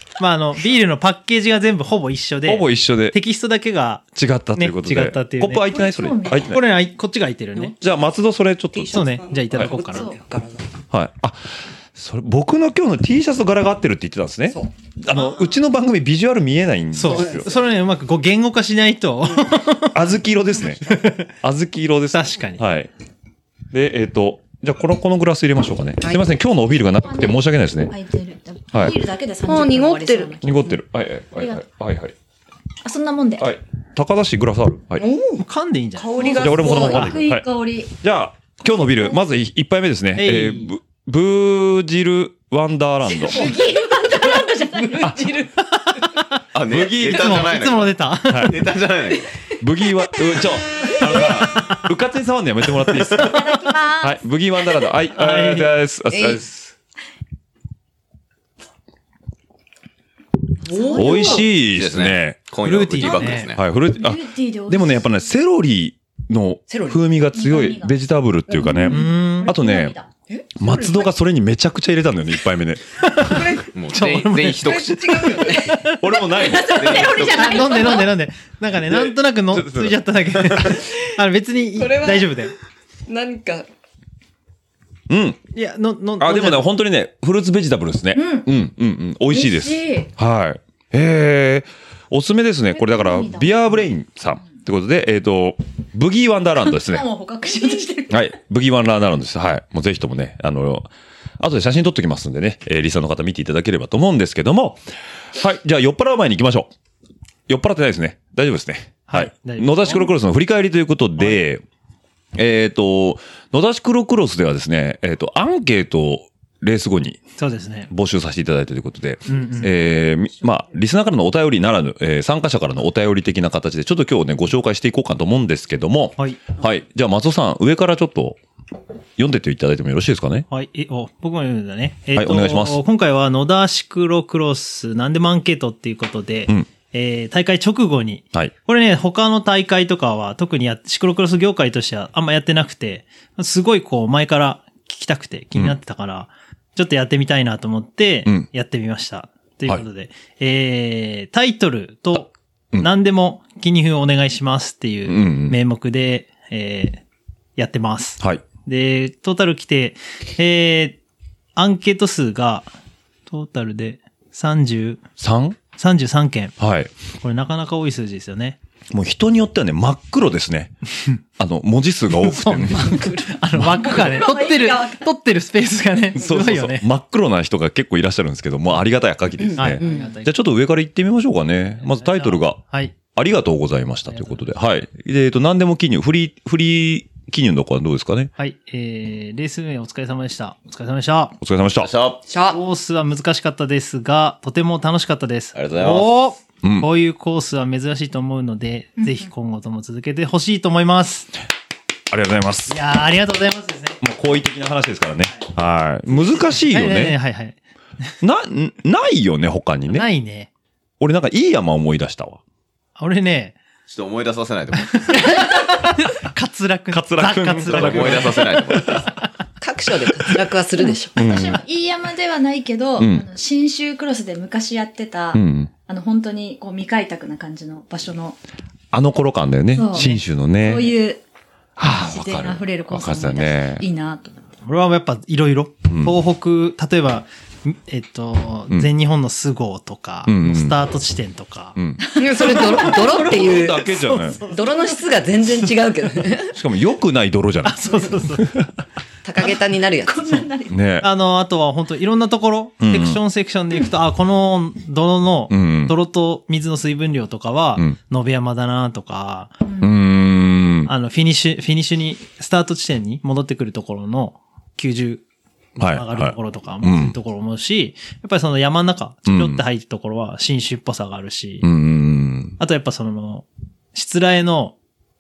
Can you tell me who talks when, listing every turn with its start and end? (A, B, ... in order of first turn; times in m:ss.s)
0:00.2-0:05.7 A
0:02.4-0:03.2 B
0:04.1-0:06.6 B
0:05.7-0:06.5 C
0:06.4-0:07.8 A
0:07.8-0:09.0 B
0:08.7-0:10.6 D
0:08.9-0:10.1 A
0:10.9-0:17.5 B
0:16.9-0:20.0 A
0:17.1-0:17.7 D
0:19.9-0:22.9 B
0:20.9-0:21.3 A
0:22.1-0:22.6 A
0:23.7-0:27.9 B
0:27.0-0:30.7 C
0:29.4-0:30.4 D
0:30.4-0:32.1 B
0:31.4-0:31.6 C
0:32.8-0:33.4 C
0:33.4-0:35.0 B
0:34.9-0:35.4 D
0:35.4-0:36.9 A
0:36.0-0:37.1 D
0:36.2-0:43.5 B
0:36.2-0:37.9 C
0:40.2-0:40.7 A
0:43.2-0:45.5 C
0:45.0-0:45.3 B
0:45.7-0:46.4 A
0:46.5-0:49.3 E
0:46.6-0:47.6 B
0:47.0-0:48.6 A
0:48.3-0:48.6 B
0:49.6-0:53.3 B
0:51.0-0:51.9 A
0:53.1-0:54.2 C
0:54.0-0:56.7 B
0:55.1-0:55.7 A
0:56.1-0:56.4 D
1:00.6-1:01.5 D
1:00.7-1:01.4 C
1:00.9-1:10.0 B
1:01.5-1:03.6 E
1:02.6-1:03.5 A
1:03.9-1:05.1 C
1:06.7-1:07.0 D
1:07.3-1:07.9 C
1:08.6-1:10.1 C
1:08.6-1:08.9 D
1:08.9-1:09.5 A
1:10.3-1:11.0 D
1:10.6-1:12.8 B
1:13.0-1:22.5 A
1:13.2-1:13.7 D
1:13.7-1:15.6 E
1:14.6-1:15.9 D
1:16.0-1:16.9 B
1:16.4-1:18.1 C
1:16.7-1:18.0 E
1:19.5-1:20.0 B
1:20.8-1:21.1 D
1:21.7-1:22.3 D
1:23.1-1:23.6 D
1:25.1-1:25.4 B
1:25.5-1:26.7 A
1:26.2-1:37.0 B
1:28.1-1:28.5 C
1:29.3-1:30.1 C
1:32.7-1:33.8 C
1:36.6-1:38.2 C
1:38.1-1:40.9 B
1:41.4-1:44.8 B
1:45.4-1:46.7 B
1:47.5-1:51.6 B
1:49.1-1:50.1 A
1:52.3-1:57.2 B
1:57.4-1:57.9 A
1:57.9-2:08.4 B
1:59.3-1:59.7 A
2:09.2-2:10.4 B
2:10.5-2:37.0 A
2:12.1-2:12.8 B
2:35.0-2:35.6 B
2:37.6-2:41.0 A
2:38.2-2:38.4 B
2:41.6-2:42.7 A
2:43.3-2:45.0 A
2:45.2-2:45.6 B
2:45.7-2:46.5 A
2:46.6-2:46.9 B
2:47.2-2:48.6 A
2:48.9-2:50.7 B
2:51.4-2:54.0 B
2:52.2-2:56.8 A
2:52.8-2:53.3 D
2:53.9-2:55.0 D
2:56.1-3:02.6 B
2:59.4-3:00.1 D
2:59.6-3:00.3 A
3:01.9-3:02.9 A
3:03.1-3:08.3 B
3:04.1-3:04.4 A
3:08.4-3:11.4 A
3:11.4-3:11.9 B
3:11.8-3:12.2 E
3:12.3-3:12.6 D
3:12.4-3:21.3 A
3:15.5-3:16.1 E
3:16.6-3:16.9 B
3:22.1-3:22.8 B
3:22.7-3:24.0 A
3:24.0-3:27.2 B
3:26.7-3:27.6 A
3:28.2-3:30.1 B
3:29.9-3:30.5 A
3:31.0-3:32.4 B
3:33.0-3:33.6 A
3:33.9-3:35.2 E
3:34.8-3:39.0 A
3:36.9-3:39.0 B
3:37.7-3:39.1 E
3:39.6-3:41.2 D
3:41.1-3:48.4 C
3:41.2-3:41.6 B
3:43.0-3:43.2 B
3:45.3-3:45.7 B
3:48.9-3:50.9 B
3:49.7-3:51.2 C
3:51.8-3:53.8 B
3:51.9-3:54.4 C
3:54.6-4:01.8 A
3:55.9-3:56.2 B
4:00.2-4:00.8 B
4:01.8-4:02.0 B
4:02.2-4:03.9 D
4:02.2-4:04.3 C
4:02.4-4:02.7 A
4:03.1-4:04.4 B
4:04.4-4:06.6 D
4:06.5-4:07.8 B
4:07.6-4:08.5 A
4:08.4-4:08.7 B
4:09.2-4:10.5 D
4:10.0-4:10.8 C
4:10.7-4:11.1 B
4:11.0-4:19.5 A
4:12.8-4:13.2 B
4:15.5-4:15.9 B
4:19.8-4:20.9 B
4:20.8-4:25.2 A
4:25.8-4:27.2 B
4:25.8-4:31.7 A
4:29.2-4:29.6 B
4:31.6-4:32.6 B
4:32.6-4:34.8 A